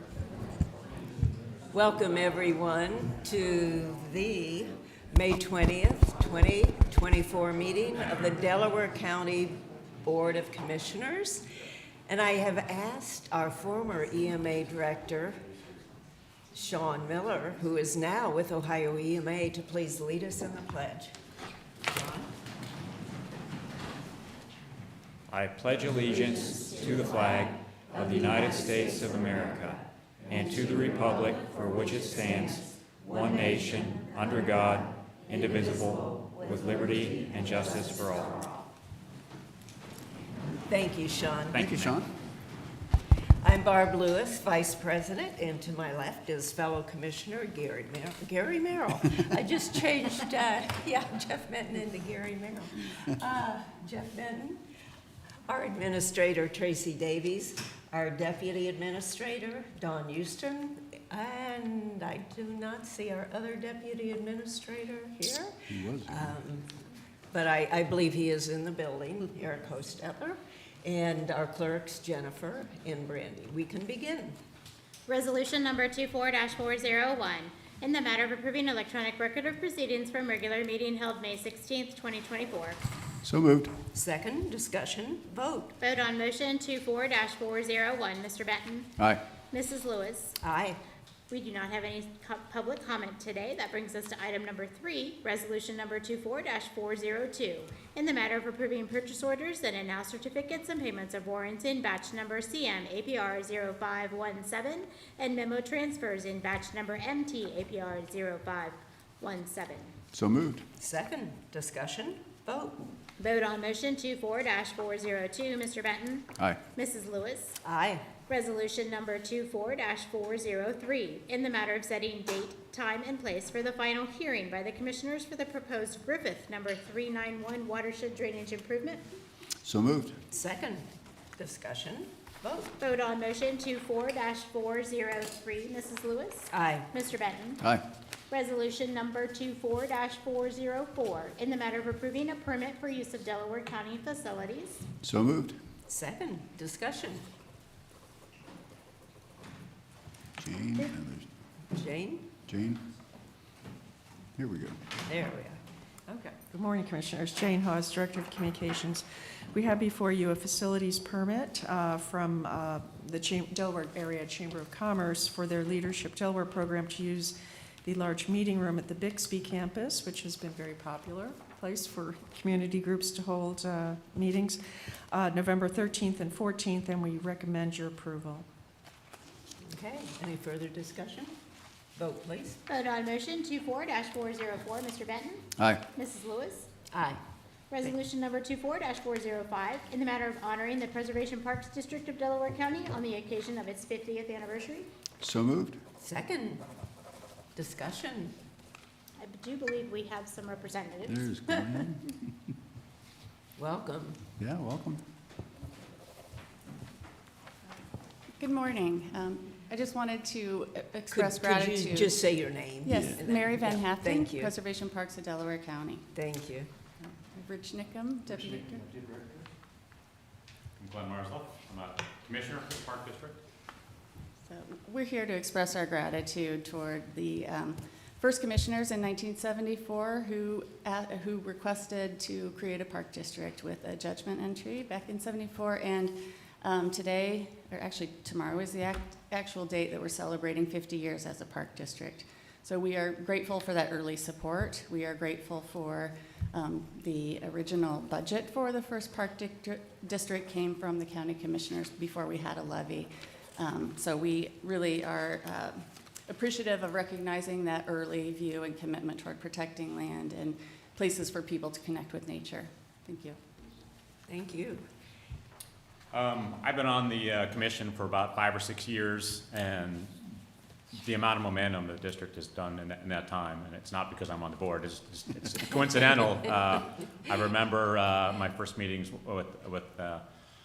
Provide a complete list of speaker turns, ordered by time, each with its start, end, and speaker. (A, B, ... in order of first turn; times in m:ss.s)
0:01.7-0:11.4 A
0:12.1-0:15.4 A
0:16.5-0:21.1 A
0:21.9-0:22.3 A
0:25.3-0:38.6 B
0:40.7-0:41.7 A
0:41.5-0:41.9 C
0:41.5-0:42.1 D
0:43.4-0:54.6 A
0:55.5-1:05.5 A
1:05.7-1:06.3 D
1:06.1-1:06.7 A
1:07.3-1:14.4 A
1:15.0-1:22.8 E
1:23.2-1:23.7 D
1:23.9-1:25.7 A
1:25.8-1:28.9 E
1:29.5-1:30.3 E
1:30.4-1:30.8 A
1:31.3-1:49.9 E
1:50.1-1:50.6 D
1:50.8-1:52.8 A
1:53.2-1:57.6 E
1:57.6-1:58.0 A
1:58.3-2:09.0 E
2:09.6-2:10.1 D
2:10.3-2:12.7 A
2:12.8-2:17.6 E
2:16.5-2:16.8 A
2:18.3-2:24.8 E
2:25.0-2:25.6 D
2:25.9-2:27.2 A
2:30.4-2:31.3 D
2:31.7-2:32.3 A
2:32.5-2:32.8 D
2:34.4-2:34.8 D
2:35.0-2:35.6 A
2:36.1-2:58.4 F
2:59.6-3:01.3 A
3:02.0-3:02.6 A
3:02.7-3:05.4 E
3:05.9-3:06.7 E
3:06.9-3:07.2 A
3:07.7-3:14.9 E
3:15.2-3:15.8 D
3:16.0-3:16.6 A
3:17.5-3:18.3 A
3:19.2-3:21.6 E
3:21.1-3:22.2 D
3:23.6-3:24.2 A
3:24.4-3:25.0 D
3:28.4-3:32.2 G
3:31.1-3:34.5 A
3:32.8-3:36.1 G
3:32.9-3:33.2 D
3:36.1-3:36.7 A
3:37.0-3:39.0 G
3:40.8-3:43.4 C
3:44.4-4:23.4 G
4:24.3-4:24.8 A
4:26.1-4:30.1 C
4:30.9-4:40.2 C